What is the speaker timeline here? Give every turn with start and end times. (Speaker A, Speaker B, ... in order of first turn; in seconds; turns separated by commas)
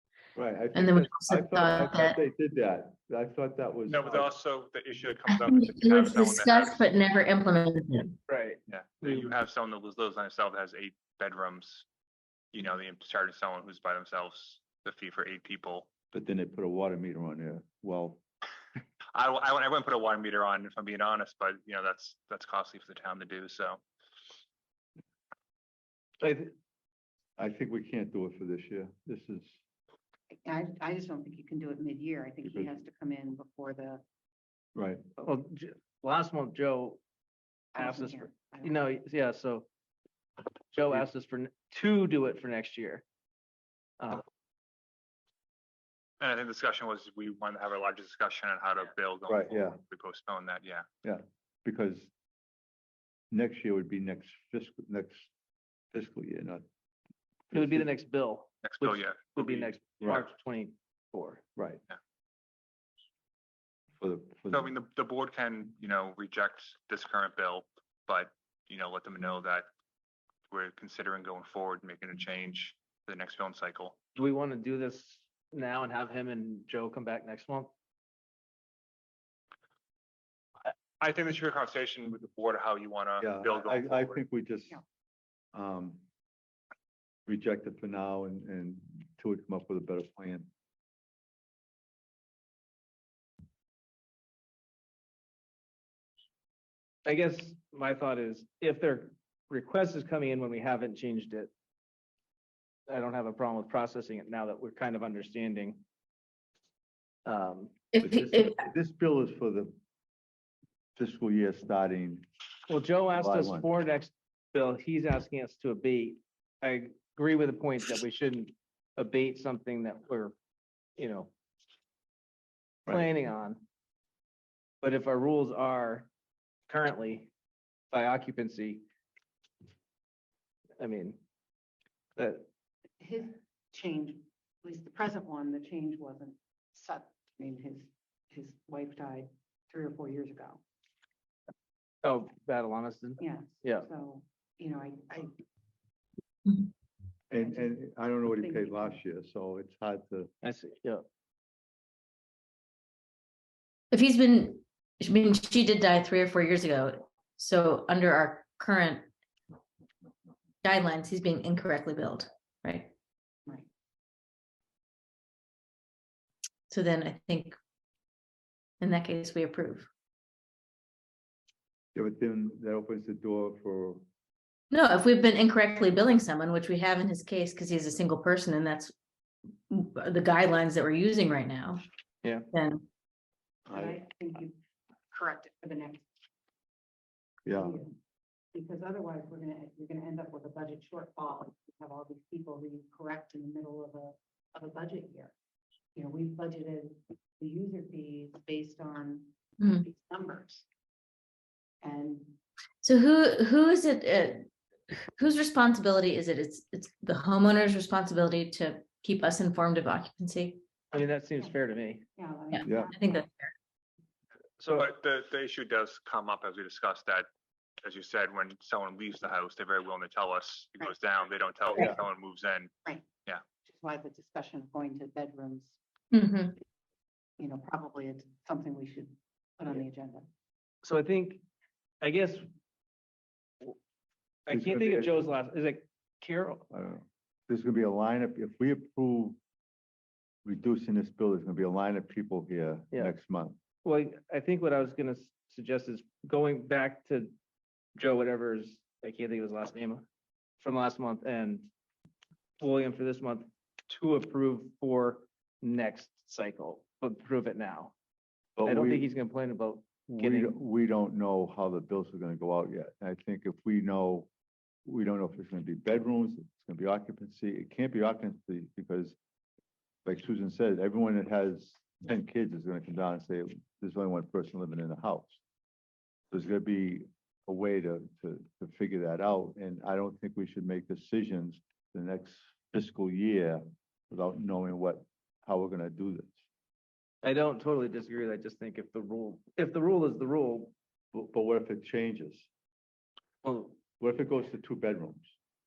Speaker A: 0.3-4.3, Speaker B: 0.7-2.2, Speaker C: 3.9-6.8, Speaker B: 5.3-8.2, Speaker D: 8.3-8.6, Speaker C: 8.7-11.8, Speaker C: 12.5-15.9, Speaker A: 16.1-18.2, Speaker C: 19.1-23.8, Speaker D: 26.2-26.5, Speaker A: 27.4-29.6, Speaker E: 30.3-34.0, Speaker A: 32.4-32.7, Speaker A: 34.7-35.0, Speaker D: 35.2-37.0, Speaker E: 37.7-38.8, Speaker D: 37.8-39.7, Speaker D: 40.7-43.0, Speaker C: 46.2-50.9, Speaker A: 49.3-49.8, Speaker A: 51.0-52.1, Speaker A: 53.3-55.3, Speaker A: 55.9-56.6, Speaker A: 57.5-57.9, Speaker D: 57.5-61.4, Speaker C: 58.6-59.7, Speaker A: 61.5-61.8, Speaker A: 64.0-64.7, Speaker C: 64.5-69.7, Speaker C: 70.5-74.0, Speaker D: 74.2-77.7, Speaker C: 80.7-84.2, Speaker A: 83.2-84.8, Speaker A: 85.5-86.0, Speaker A: 87.2-90.5, Speaker D: 97.0-101.5, Speaker D: 102.9-105.8, Speaker D: 107.2-107.8, Speaker B: 107.9-108.6, Speaker A: 108.0-109.7, Speaker A: 111.0-112.2, Speaker D: 112.7-120.3, Speaker A: 113.1-113.7, Speaker D: 121.0-121.3, Speaker D: 122.8-123.6, Speaker D: 124.8-126.1, Speaker D: 126.7-127.3, Speaker D: 127.9-128.8, Speaker D: 130.8-131.2, Speaker D: 132.2-132.4, Speaker E: 133.0-140.6, Speaker D: 142.0-143.9, Speaker E: 143.2-145.3, Speaker A: 147.3-150.3, Speaker E: 147.4-147.7, Speaker E: 148.2-149.0, Speaker D: 150.4-151.0, Speaker B: 153.9-159.1, Speaker B: 160.6-162.9, Speaker B: 166.7-167.6, Speaker B: 168.8-169.9, Speaker A: 171.9-174.0, Speaker B: 174.7-178.9, Speaker B: 179.7-181.8, Speaker B: 182.5-182.8, Speaker A: 183.7-184.0, Speaker E: 183.7-184.6, Speaker E: 185.1-186.0, Speaker A: 187.4-187.8, Speaker E: 187.5-187.9, Speaker E: 188.5-195.3, Speaker E: 195.9-200.7, Speaker B: 199.6-199.9, Speaker E: 201.8-202.4, Speaker B: 202.8-204.5, Speaker B: 205.1-210.6, Speaker D: 210.9-212.0, Speaker E: 212.1-213.0, Speaker B: 212.5-213.5, Speaker D: 214.6-214.8, Speaker C: 214.7-217.3, Speaker C: 217.8-222.7, Speaker E: 223.6-225.8, Speaker B: 226.1-226.6, Speaker E: 227.4-230.2, Speaker D: 230.8-231.4, Speaker D: 232.0-232.5, Speaker D: 234.4-236.6, Speaker A: 234.5-235.2, Speaker A: 236.7-239.4, Speaker A: 240.4-243.6, Speaker D: 243.8-247.3, Speaker D: 247.9-250.1, Speaker D: 250.6-251.7, Speaker D: 252.6-257.9, Speaker A: 258.6-259.1, Speaker D: 258.6-260.5, Speaker A: 260.1-264.3, Speaker A: 264.9-269.2, Speaker A: 270.0-275.4, Speaker A: 276.3-286.4, Speaker D: 287.2-290.7, Speaker A: 291.1-292.5, Speaker D: 293.4-293.8, Speaker A: 294.0-295.3